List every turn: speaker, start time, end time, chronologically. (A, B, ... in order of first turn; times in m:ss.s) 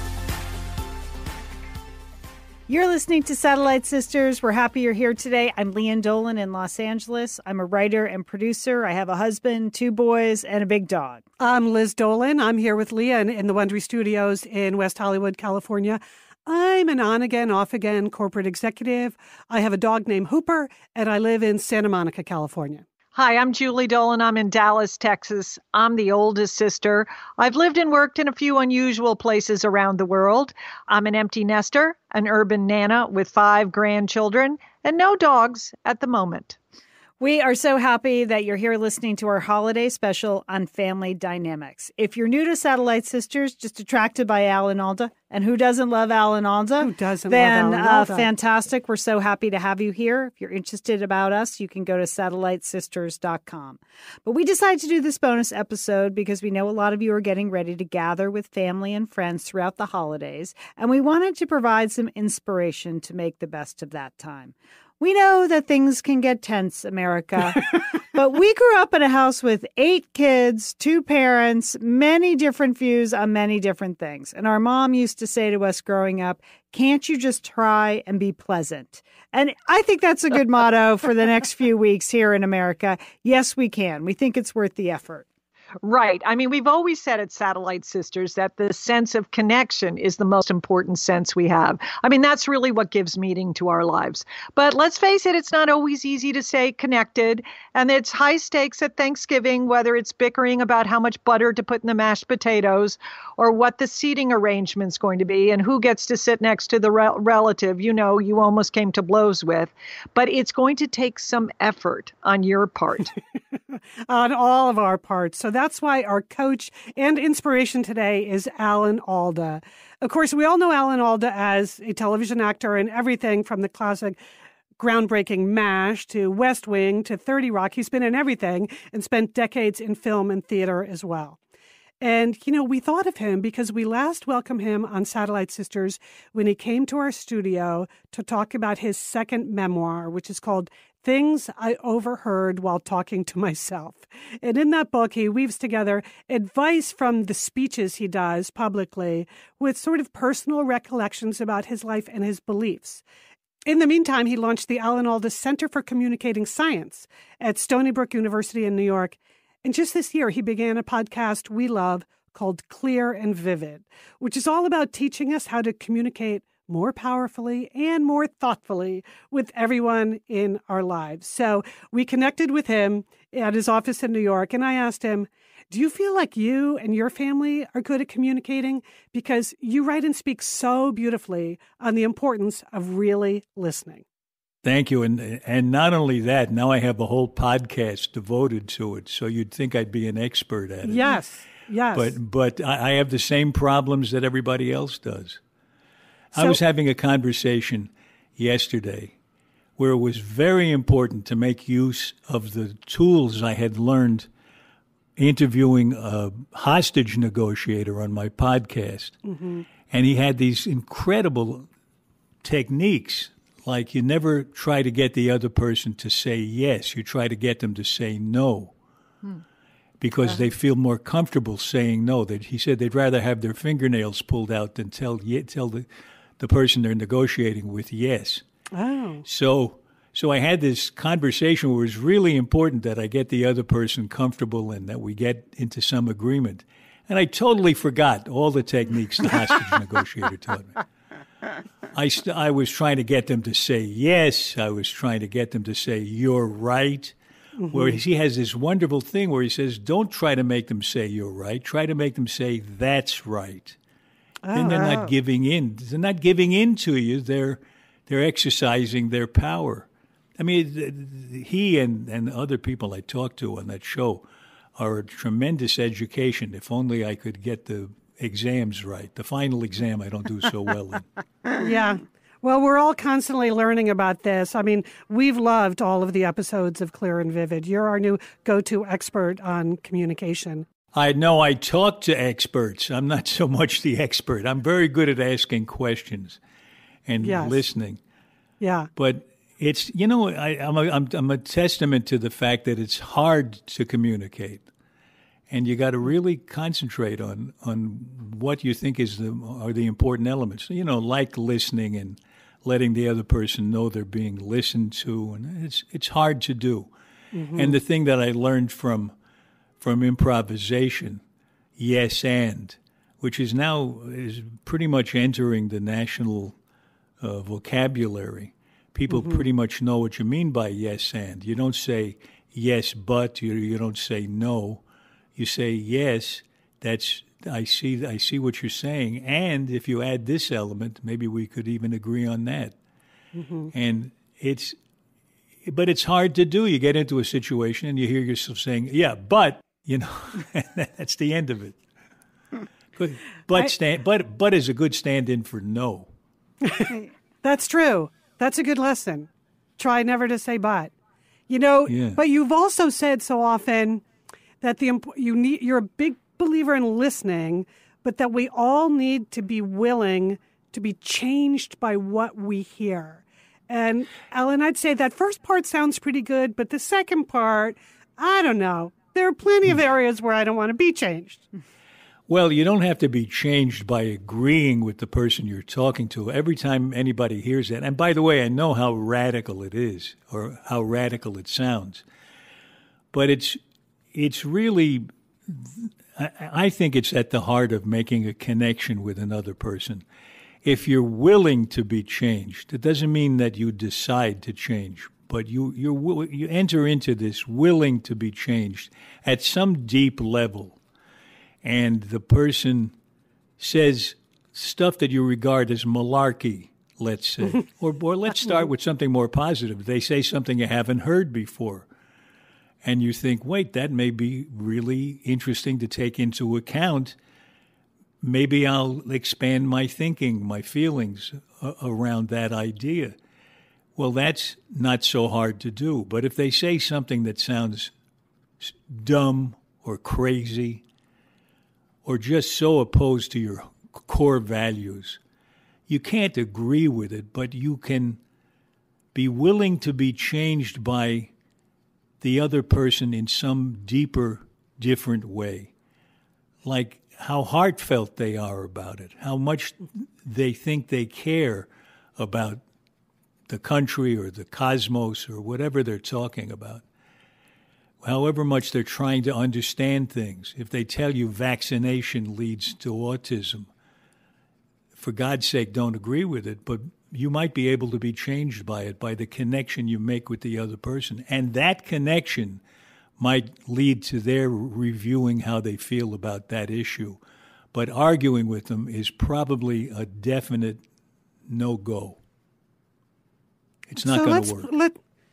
0:02.7-0:11.2 A
0:11.4-0:22.8 B
0:23.1-0:36.6 C
0:37.2-1:25.2 A
0:46.8-0:48.3 B
1:25.8-1:53.1 C
1:54.1-2:04.2 B
2:04.8-2:11.4 B
2:12.0-2:33.0 B
2:33.6-3:04.0 B
3:04.6-3:11.2 D
3:10.8-3:12.1 B
3:11.9-3:15.4 D
3:16.3-3:19.1 D
3:19.8-3:24.3 D
3:25.2-3:29.2 D
3:29.3-3:29.6 B
3:29.9-3:31.7 D
3:32.4-3:38.7 D
3:40.0-3:45.9 D
3:46.4-3:48.4 D
3:48.7-3:49.2 B
3:49.2-4:00.8 D
4:01.9-4:07.2 D
4:07.6-4:08.0 B
4:07.7-4:13.8 D
4:14.4-4:15.1 B
4:14.5-4:19.9 D
4:20.4-4:24.2 D
4:24.8-4:31.1 D
4:31.6-4:40.6 B
4:40.9-4:46.4 D
4:47.0-4:48.0 D
4:47.2-4:47.6 B
4:48.6-4:48.9 B
4:49.0-4:54.7 D
4:55.5-5:06.9 D
5:07.3-5:07.8 B
5:07.5-5:09.1 D
5:09.8-5:11.2 D
5:11.8-5:16.6 D
5:17.2-5:24.8 D
5:19.1-5:19.4 B
5:25.4-5:32.8 D
5:33.3-5:33.7 B
5:33.7-5:34.8 D
5:35.6-5:41.8 D
5:43.0-5:46.1 D
5:46.6-5:50.9 B
5:51.5-5:54.0 B
5:51.9-5:52.2 D
5:54.6-6:11.4 B
6:12.3-6:22.0 D
6:23.1-6:23.6 D
6:24.1-6:30.0 D
6:30.6-6:40.8 D
6:41.6-6:42.9 D
6:43.6-6:51.9 D
6:52.8-6:57.2 D
6:58.2-7:03.2 D
7:04.0-7:07.9 D
7:08.6-7:10.8 D
7:12.0-7:15.2 D
7:15.9-7:18.2 D
7:19.1-7:21.3 D
7:22.2-7:25.7 D
7:26.6-7:32.6 D
7:33.5-7:36.8 D
7:38.0-7:43.7 D
7:45.0-7:52.6 D
7:53.2-7:57.2 D
7:57.7-8:00.8 D
8:01.5-8:02.2 D
8:03.9-8:04.7 D
8:04.0-8:05.0 B